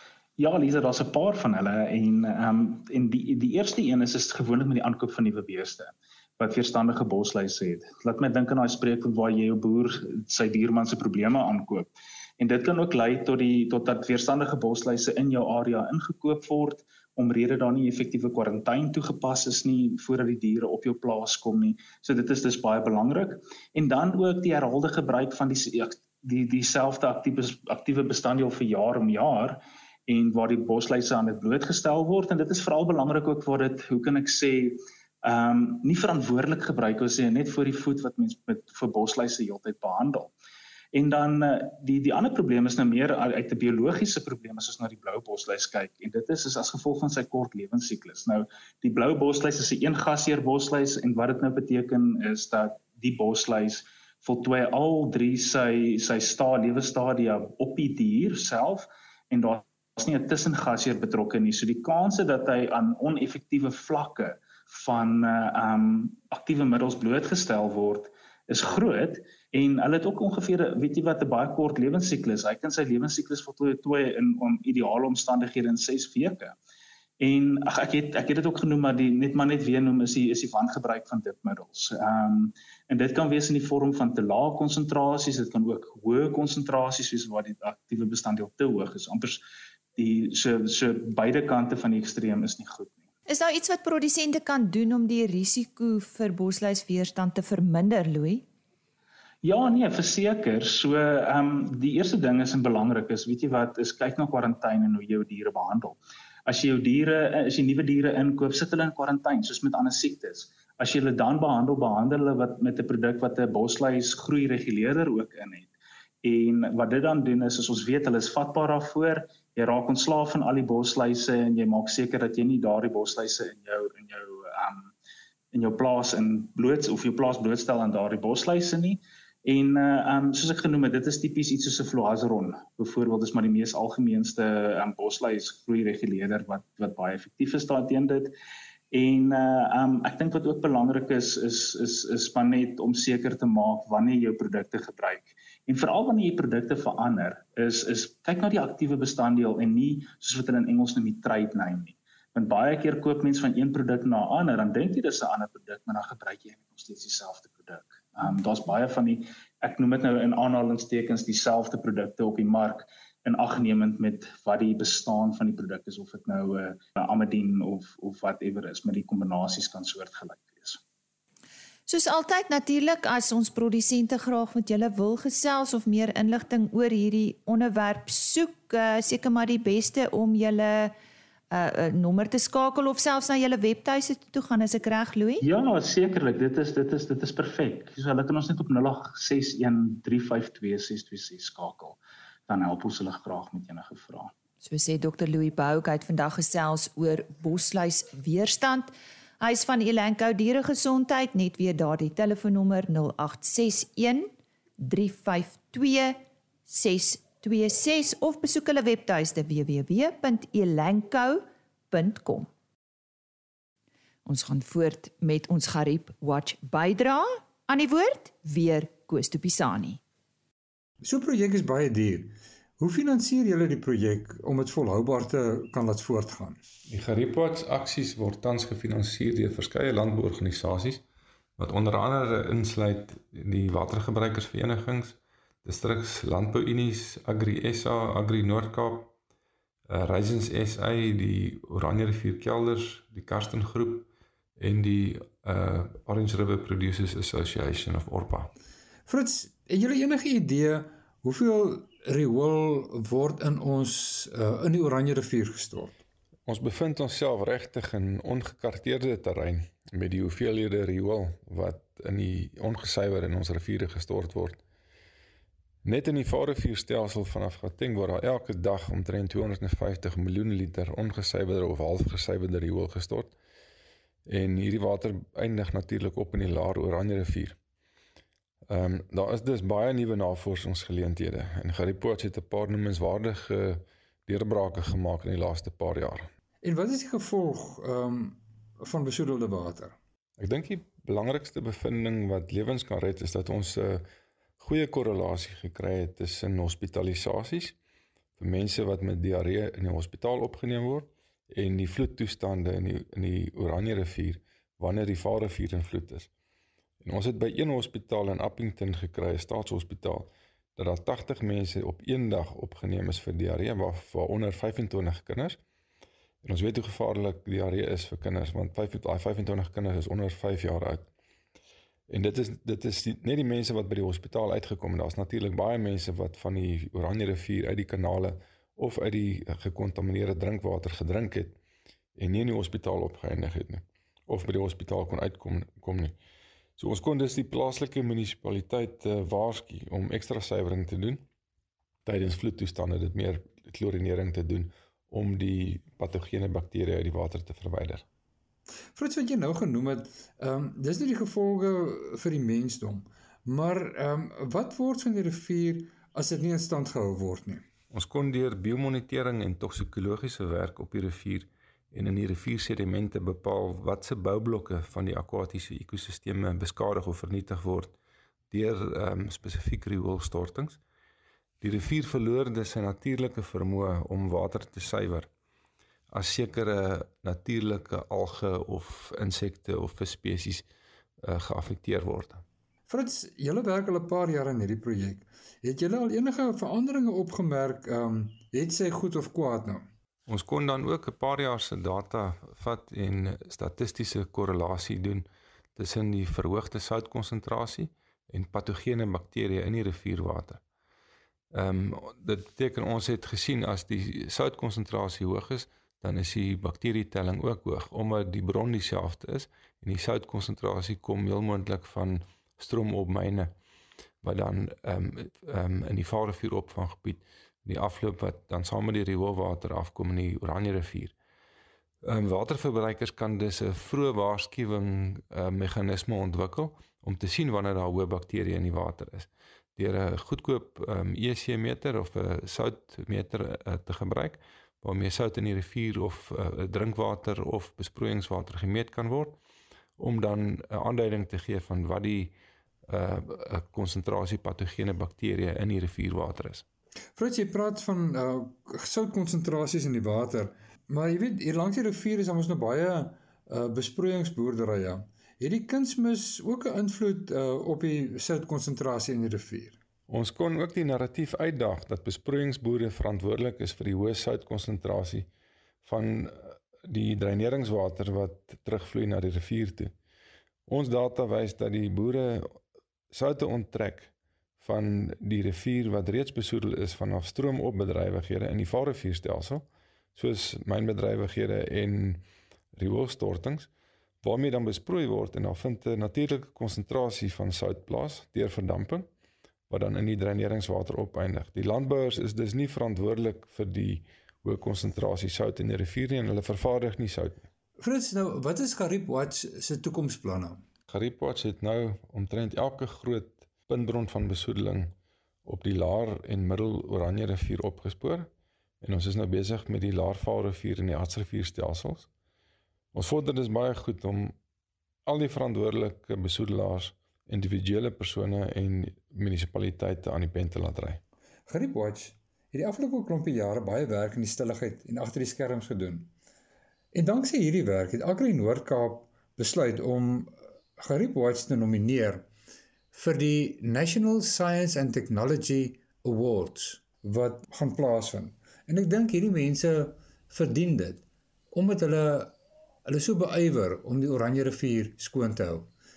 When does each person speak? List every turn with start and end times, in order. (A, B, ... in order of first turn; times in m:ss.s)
0:00.4-0:40.3 A
0:40.9-1:16.6 A
1:17.2-1:29.4 A
1:30.0-1:33.0 A
1:33.3-1:38.4 B
1:39.4-2:04.9 A
2:05.5-2:18.3 A
2:18.9-2:50.8 A
2:51.9-3:00.9 B
3:01.5-3:05.4 B
3:05.4-3:14.3 A
3:14.6-3:32.5 B
3:34.2-3:40.0 B
3:41.0-3:46.6 C
3:46.9-3:51.0 D
3:51.6-3:59.1 D
3:59.9-4:04.1 D
4:04.6-4:08.5 D
4:09.1-4:16.0 C
4:16.5-4:24.6 D
4:25.8-4:33.4 D
4:34.3-4:37.6 D
4:38.7-4:46.3 D
4:46.6-4:50.0 C
4:50.4-4:54.1 D
4:54.6-4:57.8 D
4:58.4-5:06.3 D
5:07.0-5:15.6 D
5:16.4-5:21.1 D
5:22.1-5:31.6 D
5:32.2-5:36.2 D
5:36.8-5:41.2 D
5:42.0-5:48.0 D
5:49.0-5:57.6 C
5:57.9-6:07.9 D
6:08.5-6:10.8 D
6:11.6-6:15.3 D
6:16.1-6:20.6 D
6:21.2-6:22.4 D
6:22.9-6:29.9 C
6:30.3-6:40.6 D
6:41.5-6:53.5 D
6:54.2-7:01.2 D
7:02.0-7:19.4 D
7:20.0-7:22.3 D
7:22.9-7:26.6 D
7:27.2-7:39.8 C
7:40.1-7:45.3 D
7:45.8-7:49.9 D
7:50.7-7:52.6 D
7:53.1-8:02.2 D
8:02.8-8:03.7 D
8:04.2-8:09.1 D
8:09.7-8:17.5 D
8:17.8-8:20.6 C
8:20.9-8:24.9 D
8:25.4-8:28.3 D
8:28.8-8:32.1 D
8:32.9-8:34.4 D
8:35.1-8:41.0 D
8:41.5-8:46.1 C
8:46.9-8:52.3 C
8:52.9-9:05.7 C